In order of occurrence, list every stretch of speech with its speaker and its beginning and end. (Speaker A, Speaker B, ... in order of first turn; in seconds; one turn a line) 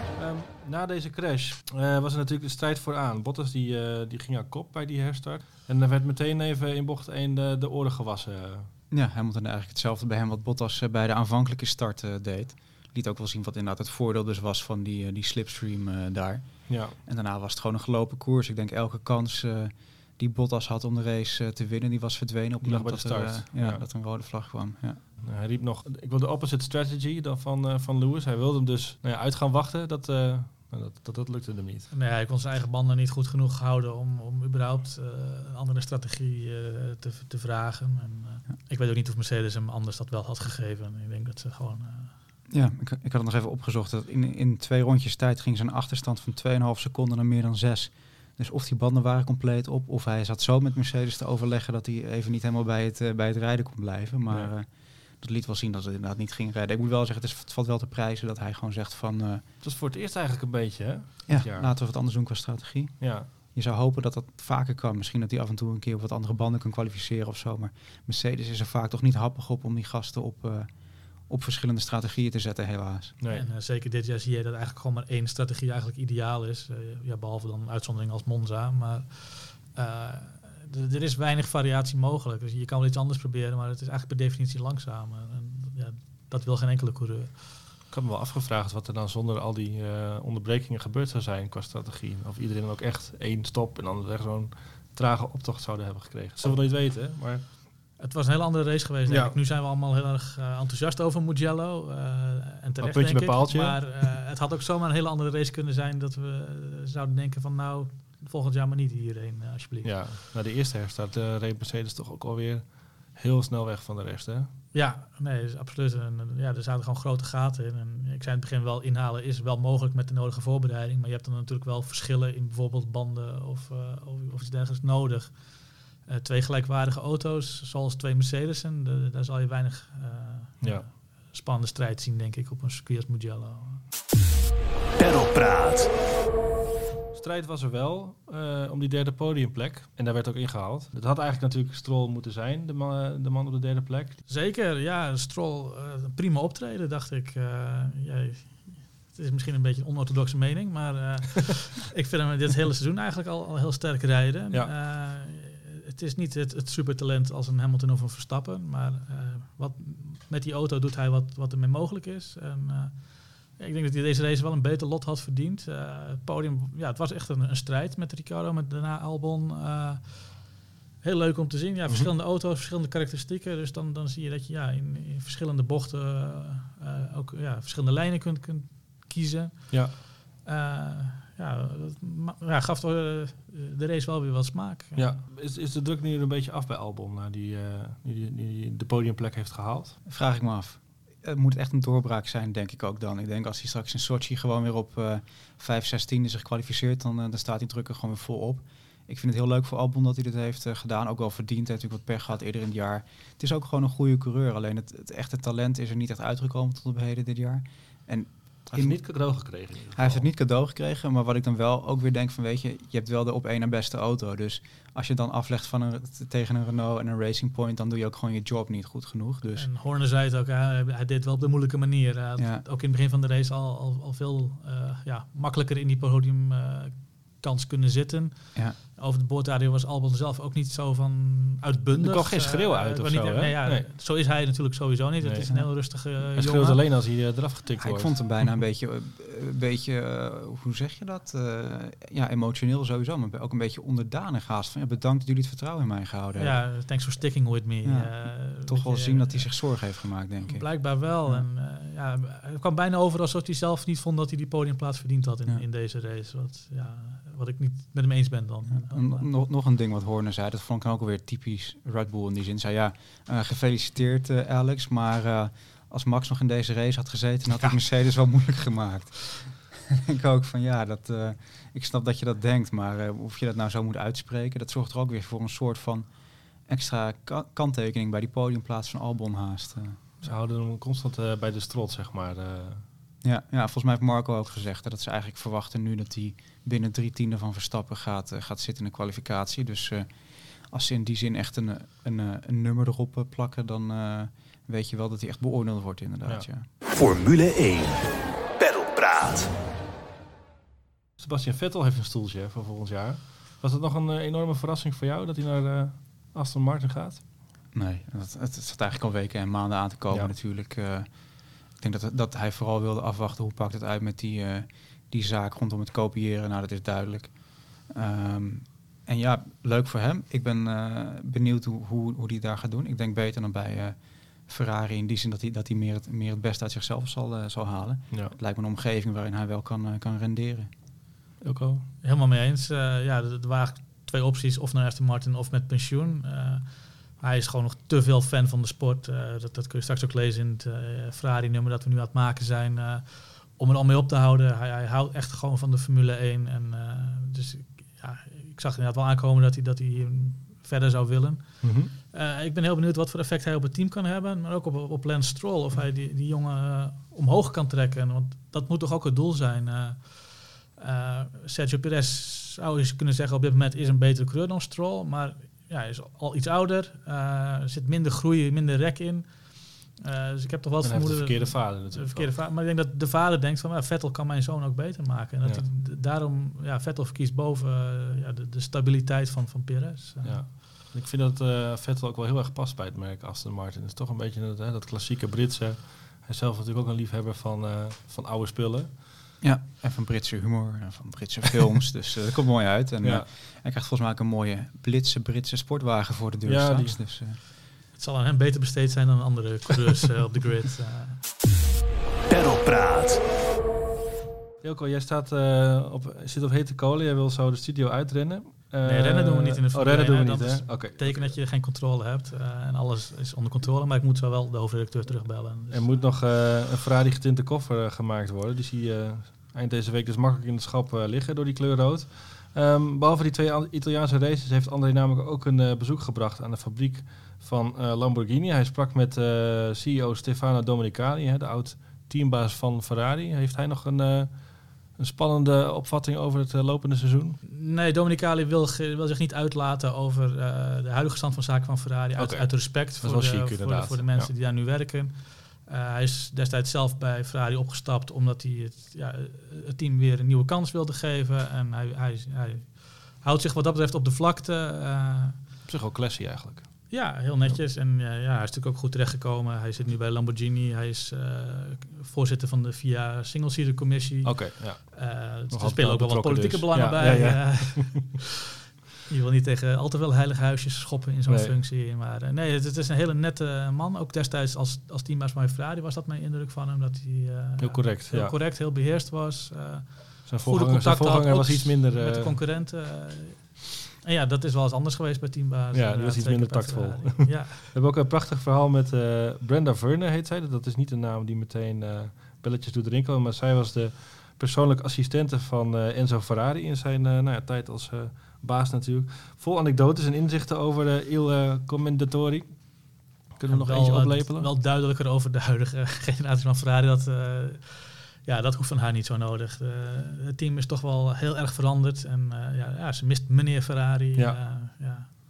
Speaker A: 0.1-8.7
Speaker B: 8.9-25.0
Speaker A: 16.7-17.0
Speaker A: 22.6-23.8
Speaker A: 25.2-31.9
Speaker C: 31.9-42.1
Speaker B: 42.5-59.4
Speaker A: 59.6-61.7
Speaker B: 61.3-70.7
Speaker A: 63.0-63.3
Speaker B: 71.2-73.1
Speaker A: 73.2-73.5
Speaker C: 73.3-87.4
Speaker A: 87.9-97.4
Speaker C: 98.0-109.9
Speaker A: 99.1-99.3
Speaker A: 102.8-104.0
Speaker A: 109.8-114.5
Speaker C: 114.7-125.5
Speaker C: 126.0-133.8
Speaker A: 130.6-130.9
Speaker D: 135.0-135.9
Speaker A: 137.1-144.2
Speaker C: 144.3-170.5
Speaker C: 171.0-185.2
Speaker A: 171.9-172.1
Speaker A: 179.7-179.9
Speaker A: 184.9-190.0
Speaker B: 190.1-209.0
Speaker A: 208.7-210.3
Speaker B: 209.9-219.7
Speaker C: 219.6-236.8
Speaker B: 222.4-222.6
Speaker A: 232.0-233.9
Speaker A: 235.2-238.4
Speaker B: 235.4-235.7
Speaker B: 237.8-246.6
Speaker C: 246.4-249.7
Speaker B: 247.8-251.4
Speaker C: 250.4-259.3
Speaker B: 258.7-276.1
Speaker B: 276.6-280.0
Speaker A: 280.2-282.8
Speaker B: 283.2-296.7
Speaker D: 296.8-298.1
Speaker D: 298.6-299.5
Speaker A: 301.2-307.2
Speaker B: 307.7-311.1
Speaker B: 311.7-330.7
Speaker A: 331.4-331.9
Speaker C: 332.0-380.5
Speaker A: 351.6-351.9
Speaker A: 370.8-372.4
Speaker A: 380.2-388.9
Speaker B: 389.4-397.4
Speaker A: 396.4-397.0
Speaker C: 397.9-401.2
Speaker D: 402.3-403.2
Speaker A: 404.6-411.3
Speaker C: 408.8-416.0
Speaker A: 415.7-437.4
Speaker C: 437.4-455.4
Speaker A: 442.2-444.3
Speaker A: 455.7-457.6
Speaker C: 456.9-468.1
Speaker A: 464.2-468.0
Speaker C: 469.1-487.7
Speaker A: 471.3-471.5
Speaker A: 477.6-478.3
Speaker A: 480.3-482.4
Speaker A: 485.7-502.8
Speaker A: 503.3-504.5
Speaker C: 503.5-515.1